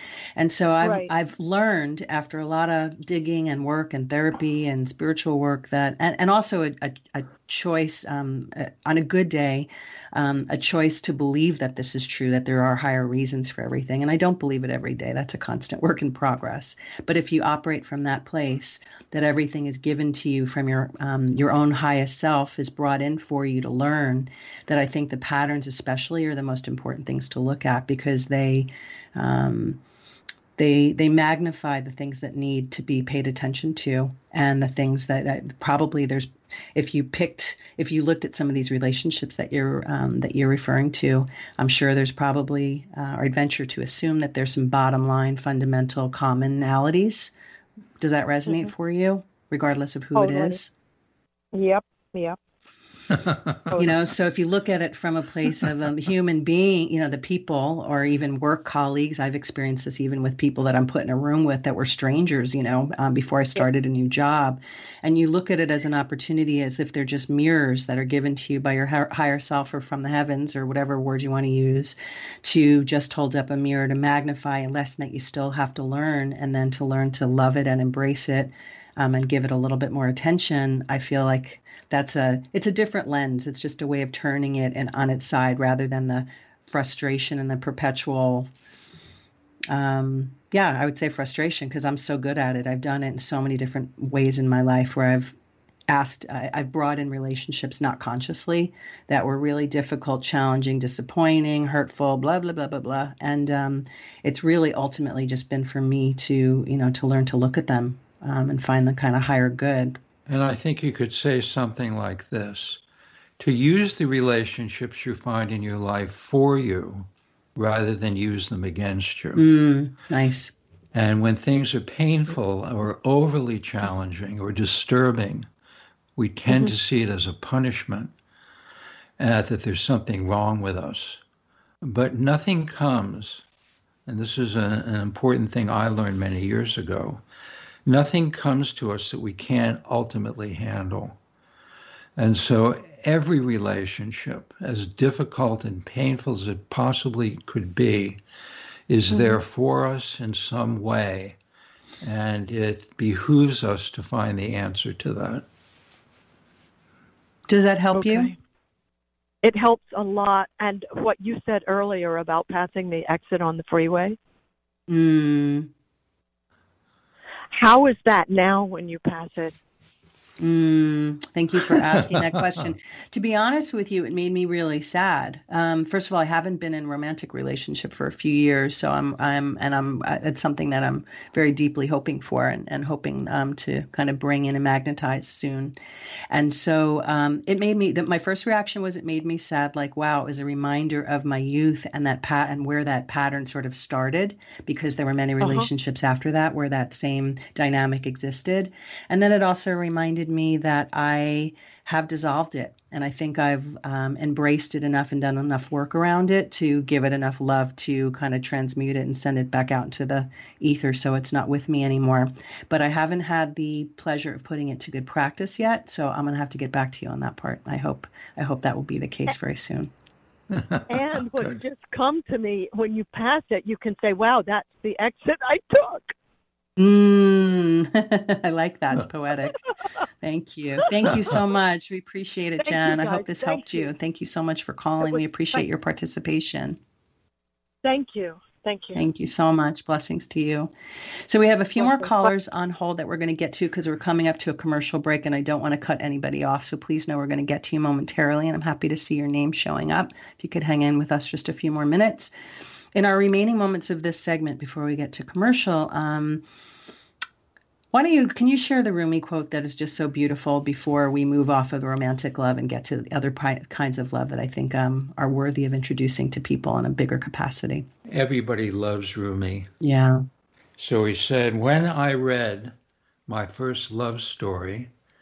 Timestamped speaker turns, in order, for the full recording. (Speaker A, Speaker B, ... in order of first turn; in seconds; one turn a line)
Speaker A: 0.3-29.8
Speaker B: 0.8-1.1
Speaker A: 30.6-47.3
Speaker A: 48.0-50.7
Speaker B: 50.1-50.6
Speaker B: 51.5-52.4
Speaker C: 53.1-53.7
Speaker A: 53.8-88.5
Speaker A: 89.7-95.3
Speaker A: 95.9-110.0
Speaker C: 110.3-112.8
Speaker C: 113.4-119.4
Speaker A: 119.3-120.5
Speaker C: 120.9-125.5
Speaker C: 126.2-128.1
Speaker C: 129.2-131.2
Speaker C: 131.8-133.4
Speaker C: 134.1-137.2
Speaker C: 137.8-141.2
Speaker C: 142.2-148.2
Speaker C: 148.9-151.4
Speaker C: 152.0-155.4
Speaker A: 157.5-158.3
Speaker B: 157.9-158.3
Speaker B: 159.4-164.2
Speaker A: 164.9-165.7
Speaker B: 167.5-169.5
Speaker A: 170.4-185.8
Speaker C: 171.8-172.2
Speaker A: 186.3-219.9
Speaker B: 195.4-195.7
Speaker C: 220.5-221.6
Speaker B: 220.9-226.1
Speaker A: 226.8-229.6
Speaker A: 230.2-236.8
Speaker B: 231.0-231.3
Speaker B: 232.6-233.9
Speaker B: 235.0-235.6
Speaker B: 237.8-239.0
Speaker A: 238.9-252.3
Speaker B: 241.8-242.3
Speaker A: 252.9-256.4
Speaker A: 257.9-267.9
Speaker C: 268.1-269.7
Speaker A: 269.8-270.2
Speaker C: 270.8-272.7
Speaker C: 273.3-274.9